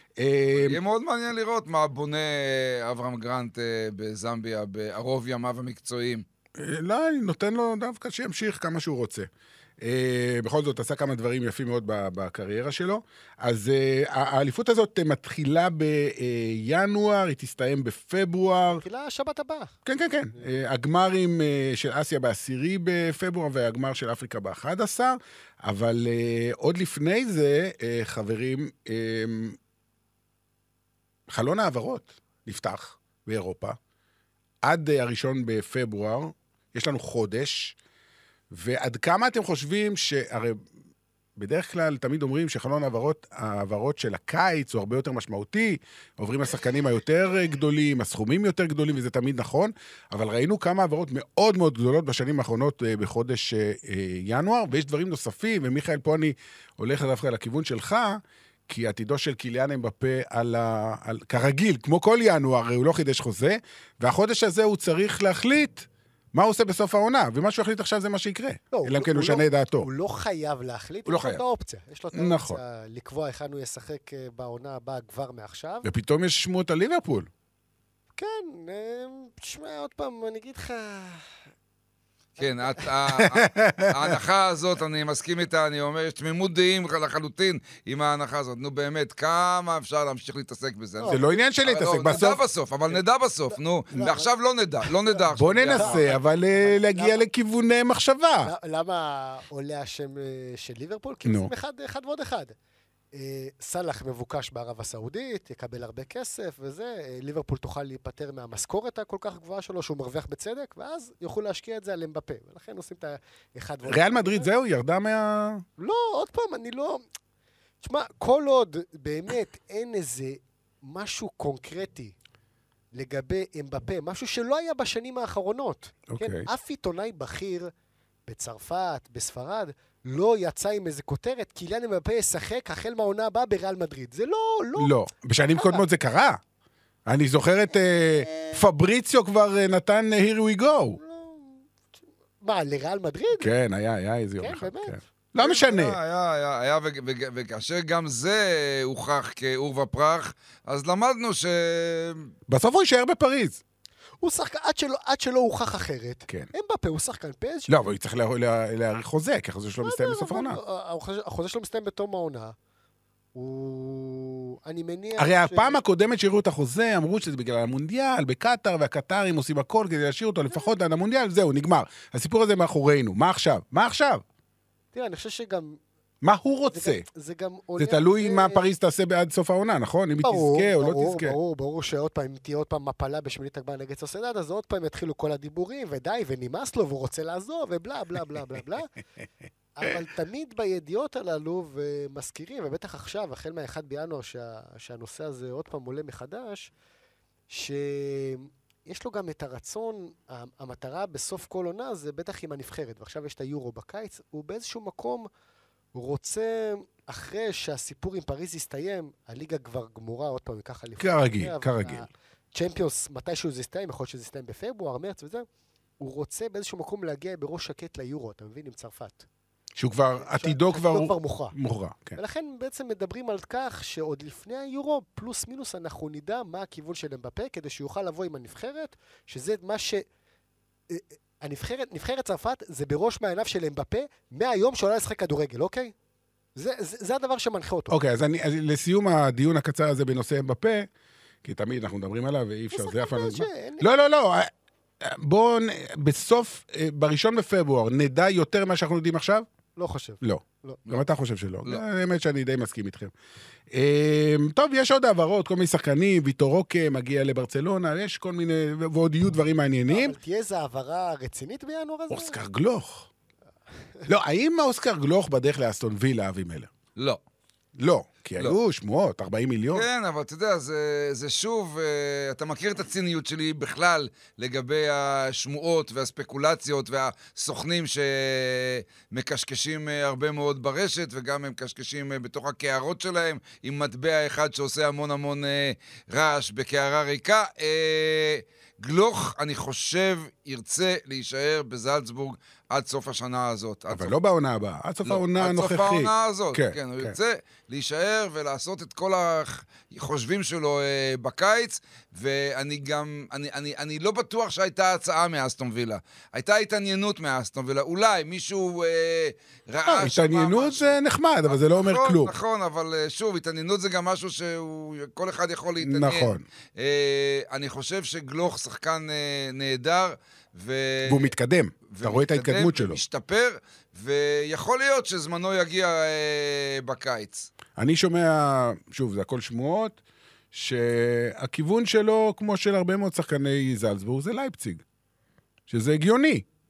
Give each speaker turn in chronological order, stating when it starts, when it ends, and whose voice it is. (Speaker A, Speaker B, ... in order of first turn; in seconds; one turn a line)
Speaker A: 0.2-0.8
Speaker B: 0.5-6.2
Speaker A: 6.6-9.3
Speaker A: 9.8-18.8
Speaker C: 18.7-19.7
Speaker A: 19.8-29.6
Speaker A: 31.3-33.8
Speaker A: 34.6-37.8
Speaker A: 38.5-40.6
Speaker A: 41.4-69.9
Speaker C: 68.7-75.9
Speaker A: 71.0-71.4
Speaker A: 72.1-72.6
Speaker A: 75.8-77.3
Speaker C: 78.2-81.3
Speaker B: 82.4-96.1
Speaker A: 83.1-84.2
Speaker C: 91.0-91.2
Speaker A: 91.1-92.4
Speaker C: 93.5-94.3
Speaker A: 95.3-98.5
Speaker C: 95.7-97.2
Speaker C: 98.4-102.5
Speaker A: 101.2-101.5
Speaker C: 103.1-114.5
Speaker A: 113.8-115.6
Speaker C: 115.8-117.0
Speaker C: 117.8-122.1
Speaker C: 122.9-127.7
Speaker A: 126.1-126.5
Speaker C: 128.3-134.9
Speaker A: 134.8-136.4
Speaker C: 135.5-135.8
Speaker A: 137.1-141.0
Speaker C: 137.8-138.6
Speaker C: 141.0-141.8
Speaker C: 142.4-143.5
Speaker A: 143.4-146.0
Speaker C: 144.4-145.0
Speaker B: 145.4-152.3
Speaker A: 152.5-153.6
Speaker C: 154.2-157.8
Speaker A: 157.7-160.6
Speaker C: 159.8-162.6
Speaker C: 163.3-165.8
Speaker A: 165.2-174.2
Speaker C: 174.9-175.8
Speaker A: 176.2-177.0
Speaker C: 176.7-178.6
Speaker A: 177.8-181.3
Speaker C: 180.2-188.9
Speaker C: 189.7-196.7
Speaker C: 197.5-205.3
Speaker C: 205.9-215.4
Speaker A: 211.0-212.1
Speaker C: 216.0-219.3
Speaker A: 219.8-222.2
Speaker C: 220.2-221.6
Speaker C: 222.2-230.1
Speaker C: 230.9-235.9
Speaker C: 236.6-238.0
Speaker A: 237.9-240.9
Speaker A: 241.4-249.5
Speaker C: 242.7-243.9
Speaker C: 249.8-250.8
Speaker A: 250.2-253.1
Speaker A: 253.7-260.1
Speaker C: 259.9-262.4
Speaker A: 262.1-263.1
Speaker A: 264.1-266.7
Speaker A: 267.8-269.9
Speaker B: 269.7-294.1
Speaker A: 293.9-297.1
Speaker B: 295.1-321.3
Speaker A: 309.9-312.3
Speaker A: 315.8-316.4
Speaker A: 321.0-323.0
Speaker B: 321.9-327.5
Speaker A: 327.8-330.0
Speaker A: 330.5-334.8
Speaker A: 335.7-336.4